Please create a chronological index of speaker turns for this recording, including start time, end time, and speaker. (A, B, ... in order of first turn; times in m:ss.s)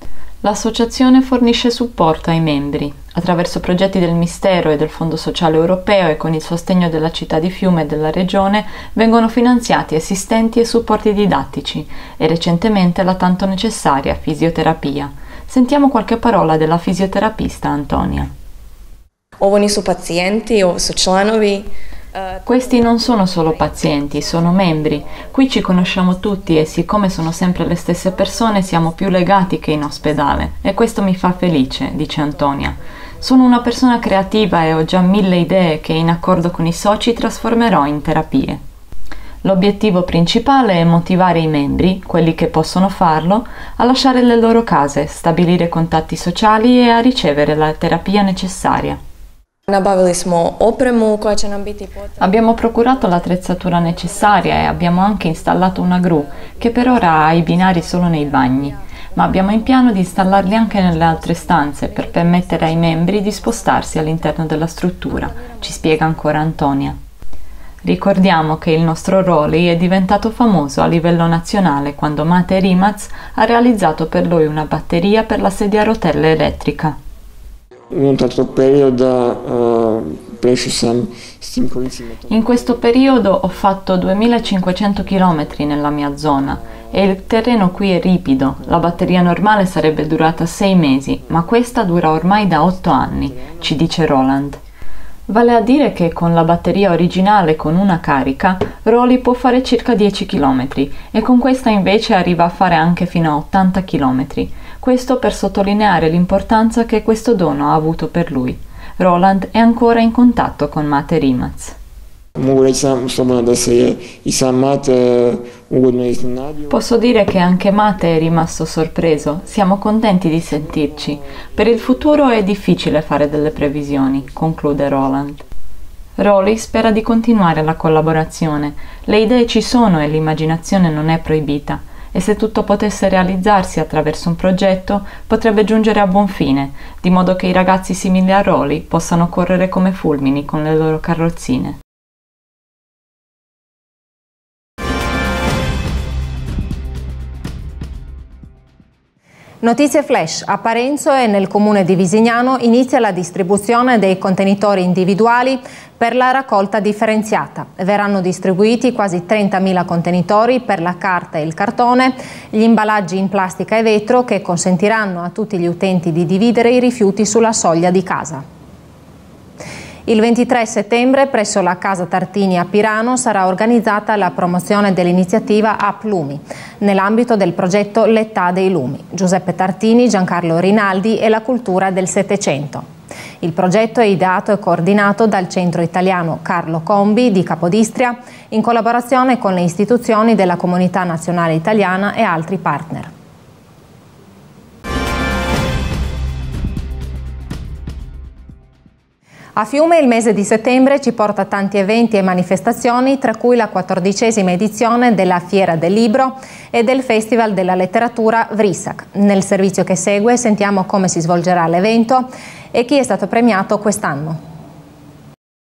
0:00.4-0:18.3 A
0:19.4-0:22.3 B
0:22.5-0:38.6 A
0:39.4-0:49.0 A
0:49.7-0:52.0 B
0:52.2-1:07.0 A
1:07.8-1:17.0 A
1:17.9-1:22.5 C
1:22.3-1:34.6 A
1:35.3-1:51.8 A
1:52.4-1:56.8 C
1:56.7-2:05.4 A
2:06.2-2:21.8 A
2:29.6-2:48.4 D
2:50.1-3:02.9 D
3:03.4-3:13.1 D
3:19.6-3:34.4 D